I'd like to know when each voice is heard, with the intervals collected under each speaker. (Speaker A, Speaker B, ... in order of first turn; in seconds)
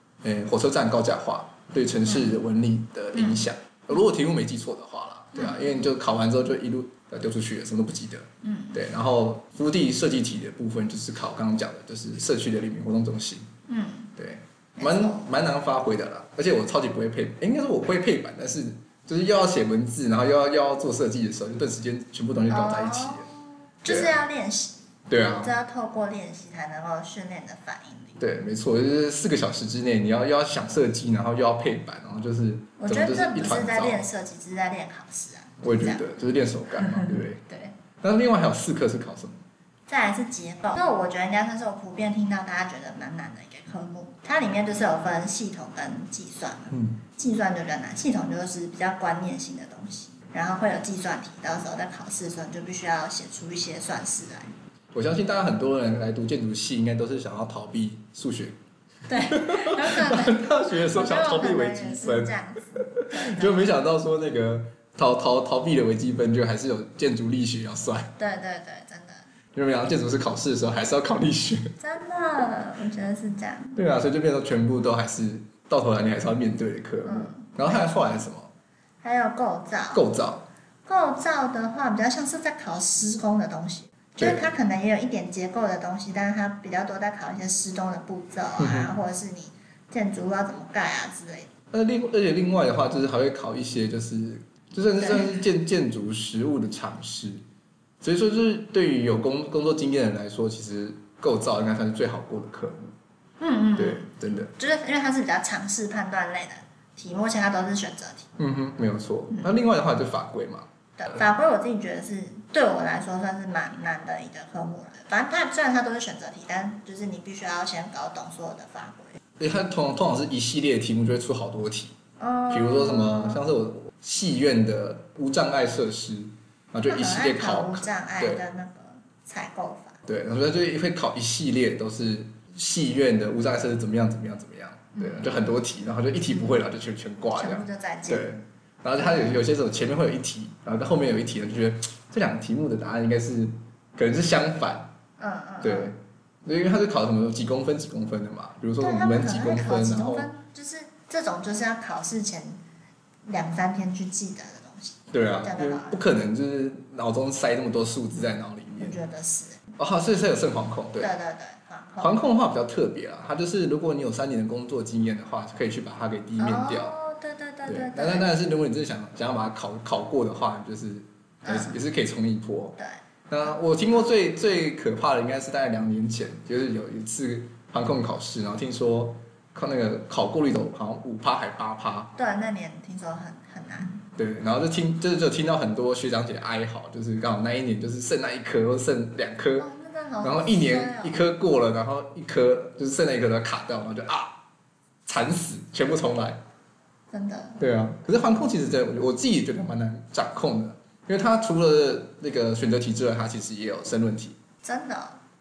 Speaker A: 0.2-13.5, 14.2-23.2, 23.9-24.2, 25.1-25.5, 28.2-34.0, 35.6-37.4, 38.0-39.4, 46.7-47.0, 54.9-58.5, 59.3-68.1, 69.5-71.7, 73.8-78.5, 79.9-80.5, 84.2-84.5, 88.6-88.9, 91.7-97.4, 98.0-102.9, 103.8-104.5, 108.4-110.7, 119.4-121.9, 122.5-128.4, 130.1-144.9, 145.6-150.3, 155.1-159.0, 159.8-161.1, 162.0-166.9, 167.7-172.8, 173.3-182.1, 184.2-189.7, 190.2-194.3, 195.1-196.4, 197.6-204.3
Speaker B: 2.0-2.3, 3.1-3.5, 5.3-5.8, 8.4-8.8, 13.7-14.1, 14.8-15.3, 22.5-24.8, 25.4-28.2, 32.8-36.0, 36.8-37.7, 39.9-54.5, 59.1-63.8, 68.2-69.2, 71.8-73.8, 77.0-78.2, 79.0-80.0, 80.8-91.5, 95.0-95.4, 103.4-108.3, 111.0-119.2, 122.2-123.4, 126.9-130.0, 134.9-135.3, 137.3-138.3, 139.0-139.4, 145.2-145.9, 148.8-152.6, 153.3-156.0, 158.8-159.6, 161.0-162.2, 166.4-168.3, 171.4-171.8, 182.2-184.0, 189.6-191.2, 197.1-197.6, 204.6-205.2